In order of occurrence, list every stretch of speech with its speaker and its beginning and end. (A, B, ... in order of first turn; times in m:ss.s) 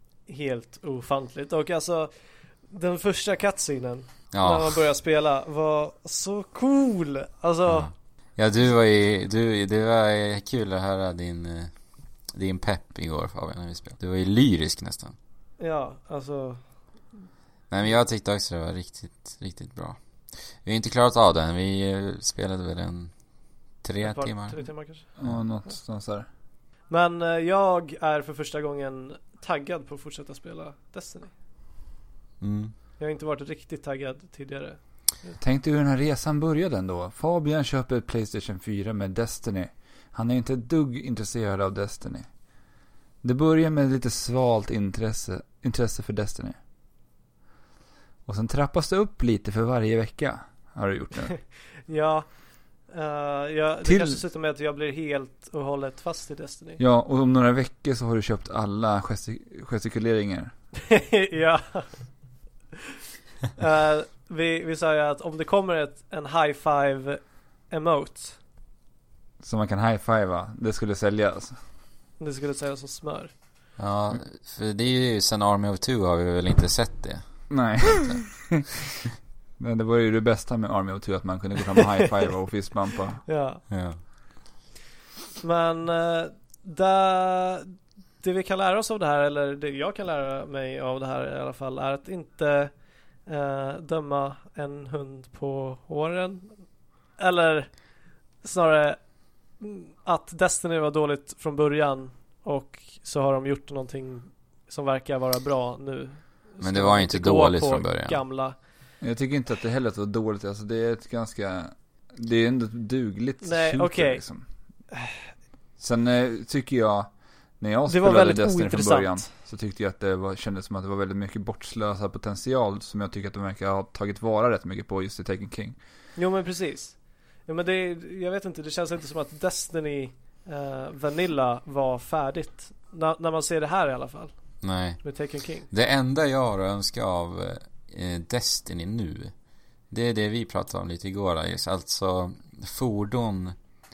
0:00.3-0:02.1 A
0:02.7-0:07.9 A
0:04.3-0:04.8 B
0:07.7-0:11.7 B
0:12.3-0:15.2 B
0:15.6-0:16.6 A
0:17.7-0:23.1 B
0:23.8-0:24.6 B
0:24.0-0:25.1 A
0:25.2-0:26.3 C
0:26.9-0:31.3 A
0:32.4-0:32.7 B
0:33.0-0:35.4 A
0:35.4-0:42.3 C
0:43.2-0:46.6 C
0:48.3-0:51.4 C
0:51.9-0:52.3 A
0:52.9-0:56.8 A
0:53.9-0:54.2 C
0:56.8-1:00.5 C
1:00.8-1:02.0 A
1:03.6-1:08.4 A
1:09.4-1:11.6 C
1:12.2-1:13.3 A
1:13.8-1:18.2 B
1:17.5-1:18.7 C
1:19.6-1:23.2 C
1:23.3-1:23.6 A
1:23.7-1:24.0 B
1:25.4-1:32.7 A
1:33.3-1:36.5 A
1:37.2-1:37.7 A
1:38.4-1:39.0 A
1:39.6-1:48.6 A
1:46.6-1:48.2 B
1:49.0-1:54.4 C
1:53.4-1:54.2 A
1:55.8-2:05.8 C
1:57.9-1:59.3 A
2:06.2-2:14.3 A
2:14.6-2:15.0 B
2:15.0-2:15.7 A
2:15.7-2:19.3 B
2:19.9-2:23.6 B